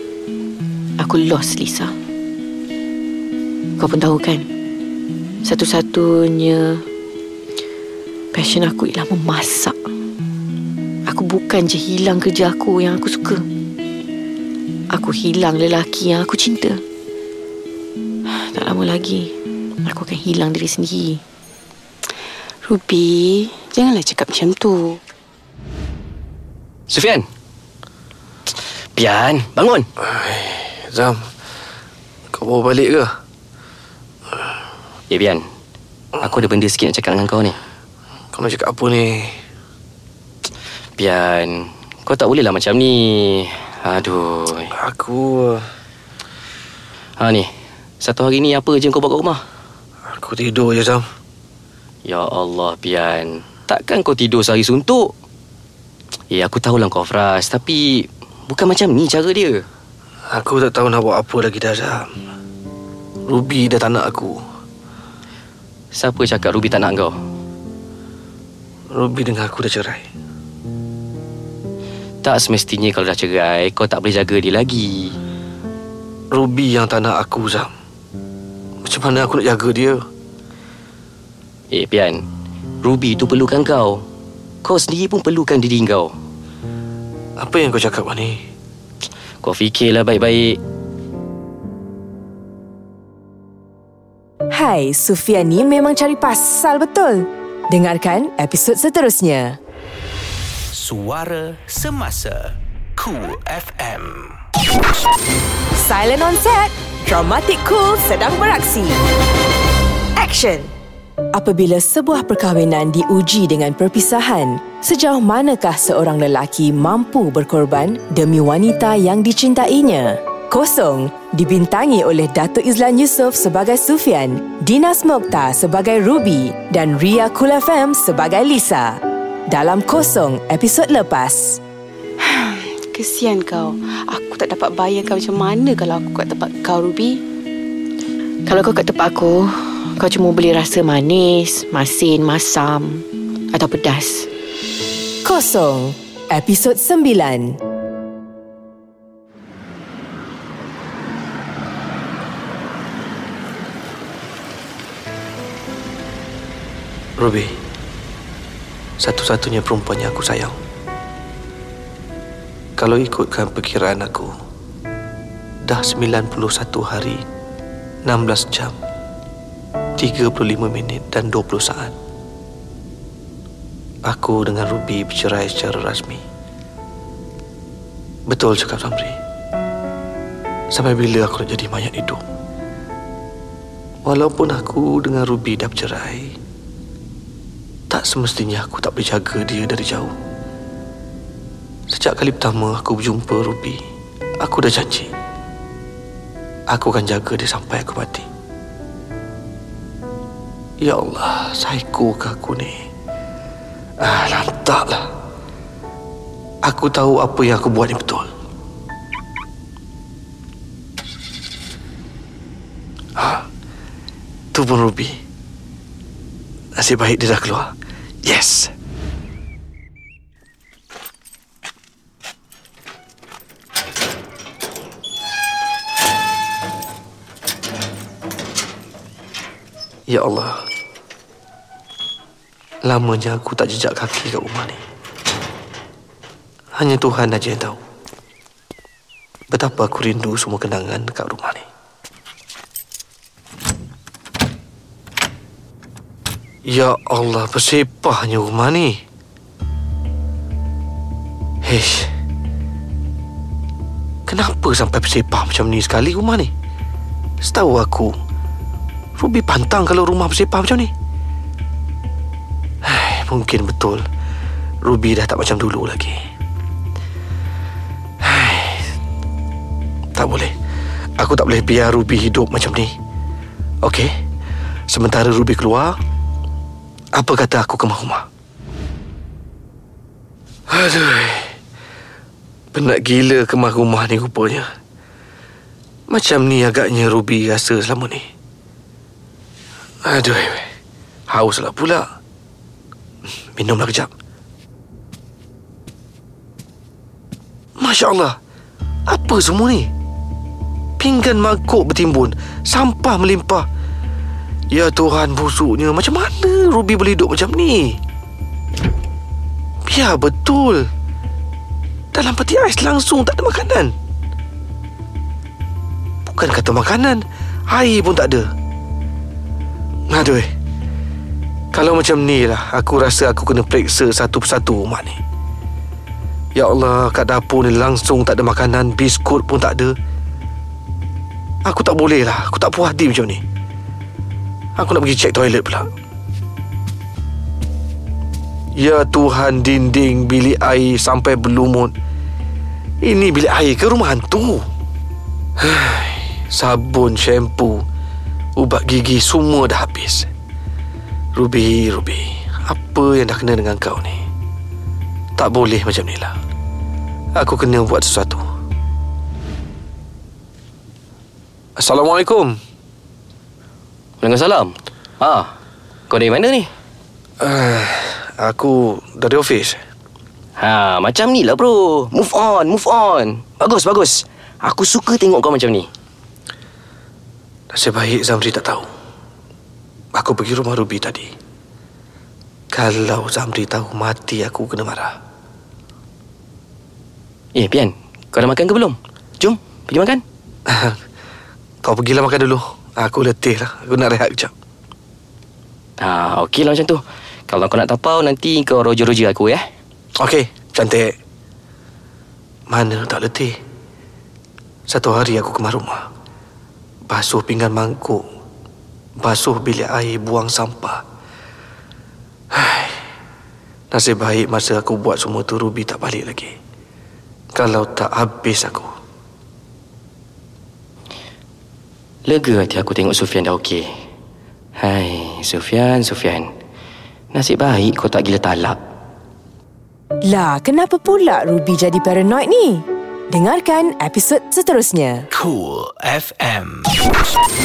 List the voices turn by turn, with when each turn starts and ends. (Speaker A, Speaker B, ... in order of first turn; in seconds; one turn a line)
Speaker A: 1.0-1.9
Speaker A: 3.8-4.5
Speaker A: 5.4-6.8
Speaker A: 8.3-9.7
Speaker A: 11.1-13.4
Speaker A: 14.9-16.8
Speaker A: 18.3-21.2
Speaker B: 22.6-25.0
Speaker C: 26.9-27.2
Speaker C: 28.9-29.9
Speaker D: 30.0-31.3
Speaker D: 32.3-33.2
Speaker C: 35.1-35.4
Speaker C: 36.2-37.6
Speaker D: 38.3-39.4
Speaker C: 41.0-44.7
Speaker D: 44.7-45.6
Speaker C: 47.2-49.4
Speaker D: 50.1-51.0
Speaker C: 52.0-55.1
Speaker C: 56.3-59.6
Speaker D: 60.3-62.1
Speaker D: 63.3-64.4
Speaker C: 65.9-67.2
Speaker D: 68.9-70.0
Speaker C: 72.2-75.2
Speaker D: 76.3-77.7
Speaker D: 78.8-80.0
Speaker C: 81.7-82.2
Speaker C: 82.8-84.0
Speaker C: 84.6-86.1
Speaker D: 87.4-88.4
Speaker C: 89.4-90.6
Speaker E: 94.5-99.6
Speaker F: 100.7-104.4
Speaker E: 105.7-109.0
Speaker E: 110.2-110.7
Speaker E: 111.3-131.6
Speaker B: 132.2-137.2
Speaker A: 138.5-144.3
Speaker E: 145.2-147.6
Speaker D: 157.2-157.6
Speaker D: 159.0-160.6
Speaker D: 162.8-164.3
Speaker D: 165.6-167.2
Speaker D: 168.0-168.7
Speaker D: 170.0-171.9
Speaker D: 174.1-176.2
Speaker D: 178.3-179.2
Speaker D: 180.7-182.2
Speaker D: 184.0-186.4
Speaker D: 187.9-190.1
Speaker D: 191.9-193.8
Speaker D: 194.4-195.1
Speaker D: 196.7-198.3
Speaker D: 200.8-202.8
Speaker D: 204.0-205.1
Speaker D: 206.6-208.3
Speaker D: 213.2-213.5
Speaker D: 214.5-215.2
Speaker D: 216.8-218.7
Speaker D: 230.1-230.7
Speaker D: 232.8-234.8
Speaker D: 236.7-237.8
Speaker D: 239.5-241.7
Speaker D: 246.6-249.0
Speaker D: 251.6-252.1
Speaker D: 254.3-256.5
Speaker D: 257.4-258.1
Speaker D: 259.2-260.9
Speaker D: 262.8-264.0
Speaker D: 264.8-266.2
Speaker D: 268.2-268.9
Speaker D: 270.1-270.5
Speaker D: 271.2-272.9
Speaker D: 273.8-274.1
Speaker D: 274.9-276.0
Speaker D: 277.1-278.2
Speaker D: 280.7-281.6
Speaker D: 282.7-284.7
Speaker D: 286.1-288.3
Speaker D: 290.0-290.7
Speaker D: 291.3-292.1
Speaker D: 293.5-294.1
Speaker D: 297.8-298.4
Speaker D: 299.1-299.9
Speaker D: 301.0-303.7
Speaker D: 304.7-308.0
Speaker D: 309.9-310.9
Speaker D: 312.1-313.9
Speaker D: 316.2-318.5
Speaker D: 320.1-320.5
Speaker D: 321.7-325.2
Speaker D: 326.5-330.0
Speaker D: 331.6-333.4
Speaker D: 334.8-335.9
Speaker D: 338.7-341.9
Speaker D: 343.0-344.6
Speaker D: 345.6-347.8
Speaker D: 348.6-350.3
Speaker D: 351.4-354.2
Speaker D: 355.4-356.4
Speaker D: 357.3-358.4
Speaker D: 361.8-362.6
Speaker C: 364.2-365.5
Speaker C: 366.1-366.7
Speaker D: 367.4-369.8
Speaker C: 370.6-375.9
Speaker D: 377.7-378.9
Speaker D: 380.1-381.3
Speaker D: 382.7-385.2
Speaker C: 387.5-390.2
Speaker D: 390.7-391.0
Speaker D: 391.8-394.5
Speaker C: 396.0-399.6
Speaker D: 400.2-401.2
Speaker D: 402.7-403.6
Speaker D: 404.9-406.1
Speaker D: 407.1-408.2
Speaker D: 409.2-411.0
Speaker D: 412.5-413.0
Speaker D: 413.9-416.6
Speaker D: 417.5-418.9
Speaker C: 422.2-423.9
Speaker C: 424.8-426.5
Speaker C: 427.3-428.8
Speaker E: 430.2-435.2
Speaker F: 435.3-437.4